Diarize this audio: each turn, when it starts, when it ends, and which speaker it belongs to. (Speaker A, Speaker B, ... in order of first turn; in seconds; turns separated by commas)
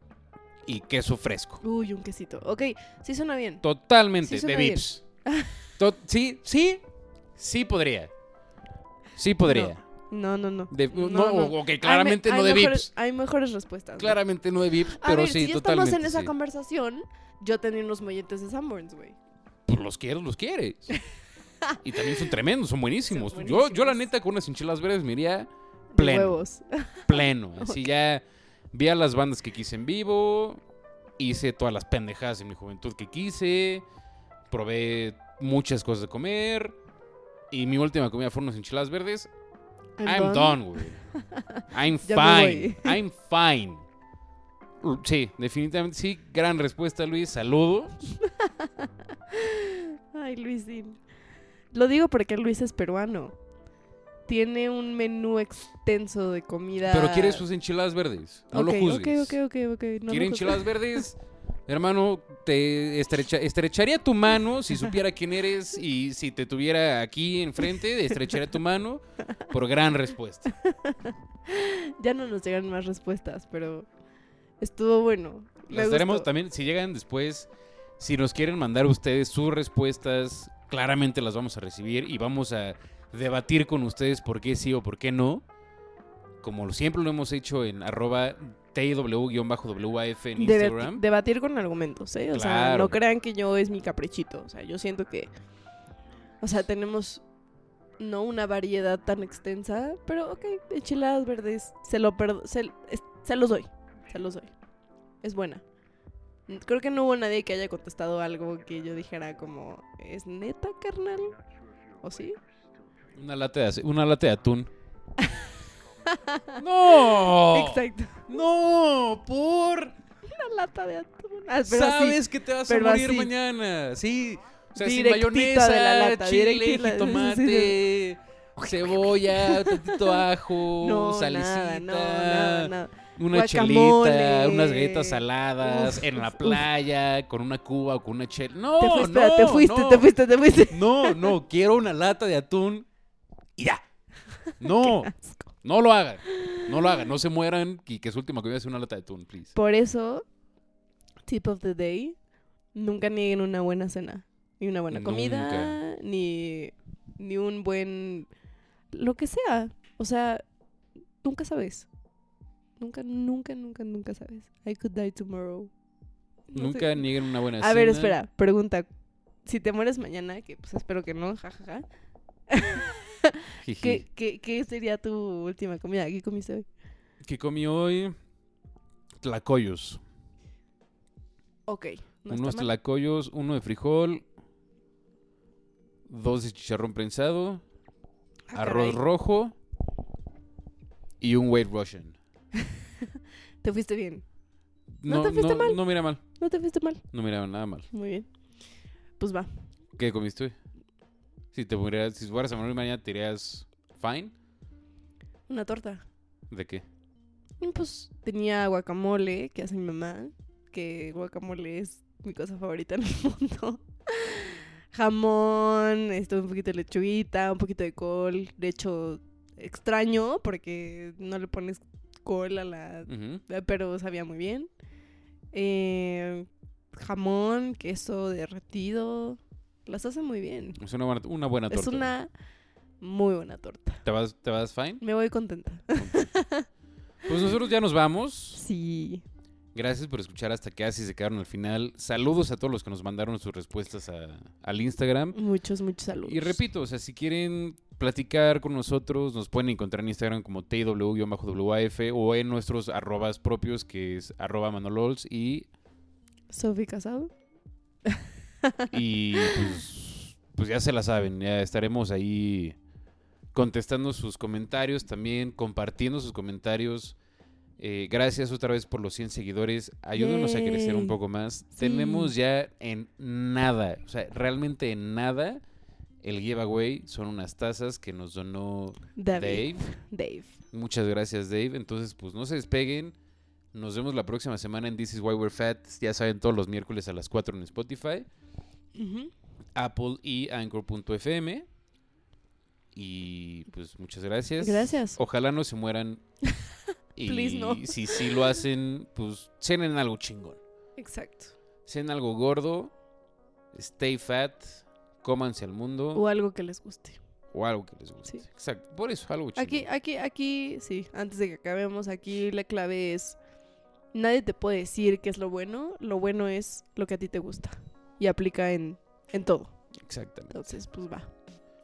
Speaker A: 0.7-1.6, Speaker B: 1.6-3.6, Speaker A: 3.6-5.0, Speaker B: 4.2-5.7, Speaker A: 5.8-6.8, Speaker A: 7.4-8.1, Speaker A: 9.2-9.8, Speaker B: 9.4-14.2, Speaker A: 10.7-12.9, Speaker A: 14.0-16.3, Speaker B: 14.8-19.2, Speaker A: 19.7-20.9, Speaker B: 21.6-22.3, Speaker A: 21.8-26.4, Speaker B: 23.1-24.1, Speaker B: 25.9-27.9, Speaker A: 27.1-30.6, Speaker A: 31.2-33.9, Speaker A: 34.5-36.8, Speaker A: 37.5-39.3, Speaker B: 40.0-40.6, Speaker A: 40.0-41.0, Speaker B: 41.1-43.0, Speaker A: 41.7-43.9, Speaker A: 44.8-48.0, Speaker B: 48.2-51.0, Speaker B: 51.7-53.4, Speaker B: 54.3-57.5, Speaker A: 56.9-59.4, Speaker B: 58.5-61.0, Speaker A: 60.1-70.6, Speaker B: 70.6-73.9, Speaker B: 74.6-76.3, Speaker A: 75.7-85.5, Speaker A: 86.4-91.0, Speaker B: 90.4-95.3, Speaker A: 92.3-93.0, Speaker B: 96.4-97.2, Speaker B: 98.0-104.5, Speaker B: 105.2-105.6, Speaker B: 106.5-111.4, Speaker B: 112.0-112.4, Speaker A: 113.1-114.7, Speaker B: 115.2-115.5, Speaker B: 116.0-118.3, Speaker A: 116.6-120.0, Speaker B: 120.2-123.3, Speaker A: 121.7-140.1, Speaker B: 124.8-127.8, Speaker B: 128.6-136.7, Speaker B: 138.8-141.4, Speaker A: 140.7-142.9, Speaker A: 143.6-143.8, Speaker B: 144.4-145.5, Speaker A: 144.6-145.1, Speaker A: 145.6-149.5, Speaker B: 146.3-147.0, Speaker B: 149.6-150.2, Speaker B: 151.3-152.2, Speaker B: 152.8-158.3, Speaker A: 154.9-155.8, Speaker B: 158.9-160.4, Speaker B: 161.2-161.9, Speaker B: 162.8-165.7, Speaker B: 166.5-168.9, Speaker A: 166.6-168.2, Speaker B: 169.5-171.8, Speaker B: 172.5-176.7, Speaker A: 173.6-174.0, Speaker A: 177.2-178.2, Speaker A: 179.2-180.0, Speaker B: 181.7-182.7, Speaker A: 182.3-184.2, Speaker A: 186.1-187.6, Speaker B: 188.5-189.0, Speaker A: 188.5-189.5, Speaker A: 191.2-192.2, Speaker B: 192.6-194.2, Speaker A: 195.0-196.2, Speaker B: 195.1-195.8, Speaker B: 196.3-197.1, Speaker A: 197.1-197.9, Speaker B: 197.9-198.3, Speaker B: 199.2-199.5, Speaker A: 200.0-200.6, Speaker A: 201.5-204.3, Speaker B: 205.5-206.1, Speaker A: 206.5-206.8, Speaker B: 207.6-224.7, Speaker A: 223.1-223.4, Speaker B: 225.5-230.8, Speaker A: 230.8-232.1, Speaker B: 231.7-232.3, Speaker B: 233.0-234.0, Speaker A: 234.0-235.0, Speaker B: 235.0-236.7, Speaker A: 236.0-236.3, Speaker A: 237.3-238.6, Speaker B: 238.6-239.2, Speaker A: 239.8-245.4, Speaker B: 245.3-246.6, Speaker A: 246.2-255.7, Speaker B: 256.5-257.3, Speaker B: 258.1-258.9, Speaker A: 258.9-262.8, Speaker A: 263.5-267.2, Speaker A: 267.8-275.6, Speaker B: 270.1-271.2, Speaker B: 271.8-272.3, Speaker A: 276.2-279.9, Speaker B: 279.2-280.5, Speaker A: 280.7-283.1, Speaker A: 283.7-288.3, Speaker B: 288.9-289.3, Speaker A: 289.8-291.6, Speaker A: 292.9-296.2, Speaker B: 294.6-295.2, Speaker A: 297.2-300.6, Speaker B: 297.2-298.5, Speaker B: 301.0-301.6, Speaker A: 301.9-302.9, Speaker A: 303.7-306.2, Speaker B: 306.1-307.2, Speaker A: 307.5-309.9, Speaker B: 309.6-313.4, Speaker B: 314.1-319.8, Speaker A: 320.0-320.7, Speaker B: 320.5-321.3